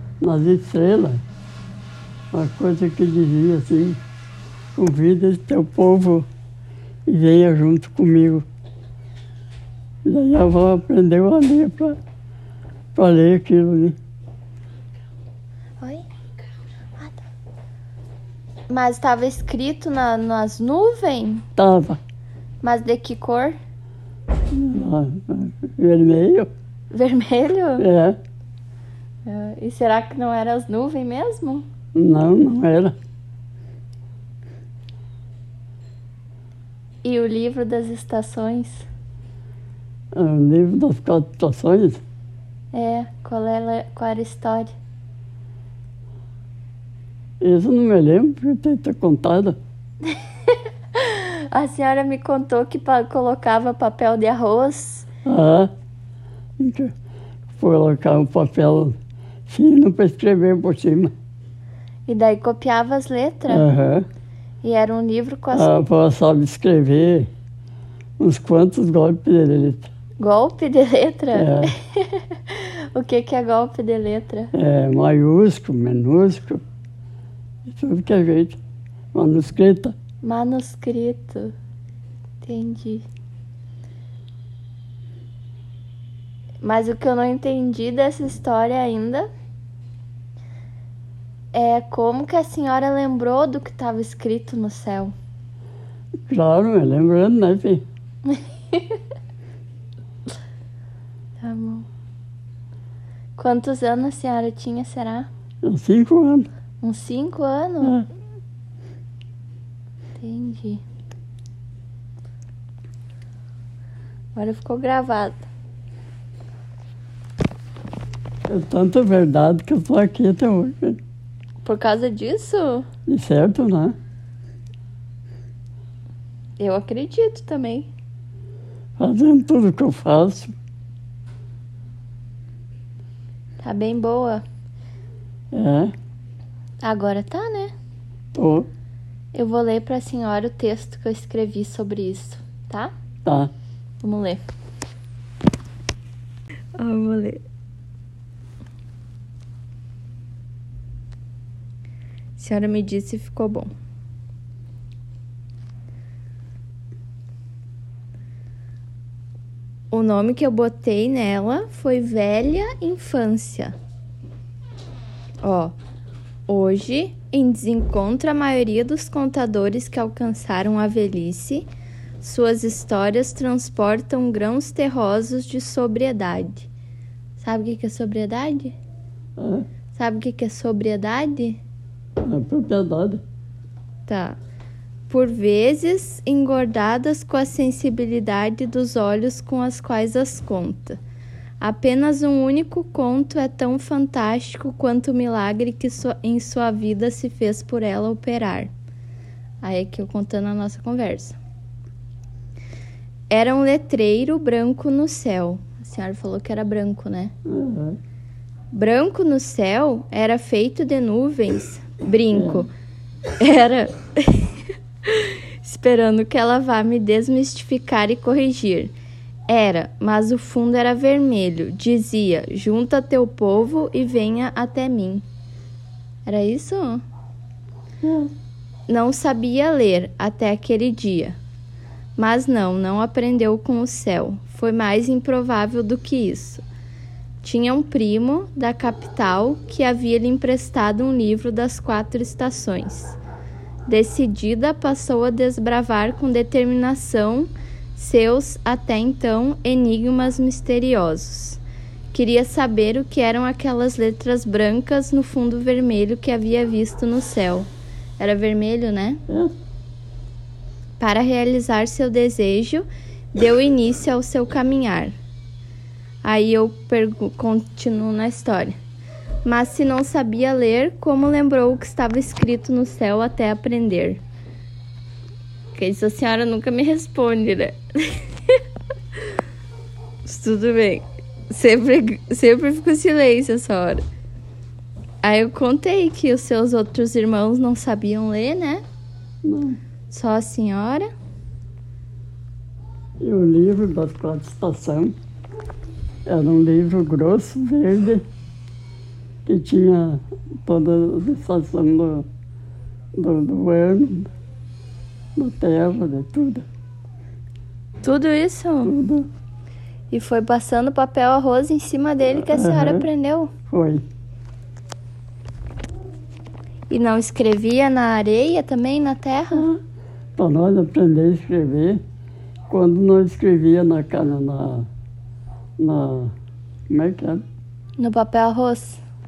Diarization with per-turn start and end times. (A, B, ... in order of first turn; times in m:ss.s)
0:00.2-0:01.2 A
0:02.3-0:04.0 A
0:04.8-0:06.3 A
0:07.1-0:08.4 A
0:10.0-0:12.0 A
0:13.0-0:14.0 A
0:18.7-0:21.5 B
0:21.6-0:22.0 A
0:22.6-0:23.6 B
0:24.5-0:26.5 A
0:26.9-0:27.9 B
0:27.8-0:28.2 A
0:29.3-0:31.6 B
0:31.9-0:32.9 A
0:37.0-0:38.9 B
0:40.1-0:42.0 A
0:42.7-0:44.7 B
0:47.4-0:49.6 A
0:50.5-0:55.1 B
0:55.2-0:55.7 A
0:56.6-0:56.9 A
0:57.6-0:59.0 A
0:59.5-1:01.1 A
1:02.1-1:03.7 B
1:03.5-1:04.1 A
1:04.6-1:05.8 B
1:05.5-1:07.3 A
1:08.2-1:09.9 A
1:10.2-1:14.5 B
1:11.3-1:11.7 A
1:14.5-1:16.6 A
1:17.7-1:18.6 A
1:19.1-1:20.0 A
1:20.2-1:21.5 B
1:22.4-1:23.1 B
1:26.6-1:29.3 B
1:31.5-1:35.1 B
1:36.3-1:37.8 A
1:38.3-1:39.0 B
1:41.4-1:41.9 B
1:43.4-1:45.3 B
1:45.6-1:46.5 A
1:46.8-1:48.0 B
1:47.8-1:48.1 A
1:50.2-1:50.8 B
1:54.4-1:55.4 B
1:58.5-2:01.0 A
2:01.6-2:02.8 B
2:03.1-2:04.0 A
2:06.6-2:07.9 B
2:09.0-2:10.5 A
2:13.6-2:14.4 B
2:15.5-2:15.9 A
2:16.8-2:17.7 B
2:18.4-2:18.7 A
2:19.3-2:22.9 B
2:23.2-2:23.5 A
2:24.0-2:24.4 B
2:26.8-2:27.4 B
2:32.4-2:33.7 B
2:39.9-2:43.8 B
2:45.4-2:45.8 B
2:46.5-2:51.7 B
2:52.2-2:56.7 B
2:57.4-2:58.8 B
2:59.4-2:59.7 A
2:59.9-3:01.6 B
3:02.2-3:03.2 A
3:04.1-3:04.4 B
3:05.1-3:11.0 B
3:11.6-3:18.7 B
3:19.6-3:21.4 B
3:23.3-3:27.3 B
3:27.5-3:28.0 A
3:28.7-3:32.7 B
3:32.3-3:32.7 A
3:33.4-3:38.9 B
3:39.5-3:45.2 B
3:46.3-3:47.0 B
3:48.0-3:48.3 A
3:48.9-3:51.4 B
3:52.2-3:56.6 B
3:57.4-4:03.2 B
4:03.9-4:11.6 B
4:12.1-4:19.2 B
4:19.3-4:19.6 A
4:21.0-4:25.2 B
4:26.2-4:28.8 B
4:29.4-4:34.2 B
4:35.7-4:38.6 B
4:40.2-4:44.0 B
4:45.2-4:48.8 B
4:49.4-4:49.8 A
4:50.1-4:51.1 B
4:53.2-4:55.2 A
4:56.3-4:58.2 A
4:59.5-5:02.3 A
5:03.2-5:04.3 A
5:05.4-5:06.7 A
5:08.0-5:08.9 B
5:08.8-5:09.3 A
5:10.1-5:13.5 B
5:12.3-5:13.1 A
5:13.7-5:14.0 A
5:16.9-5:19.7 B
5:19.5-5:19.8 A
5:20.4-5:22.0 A
5:22.7-5:24.9 A
5:25.8-5:26.3 A
5:26.9-5:27.4 A
5:28.0-5:29.0 B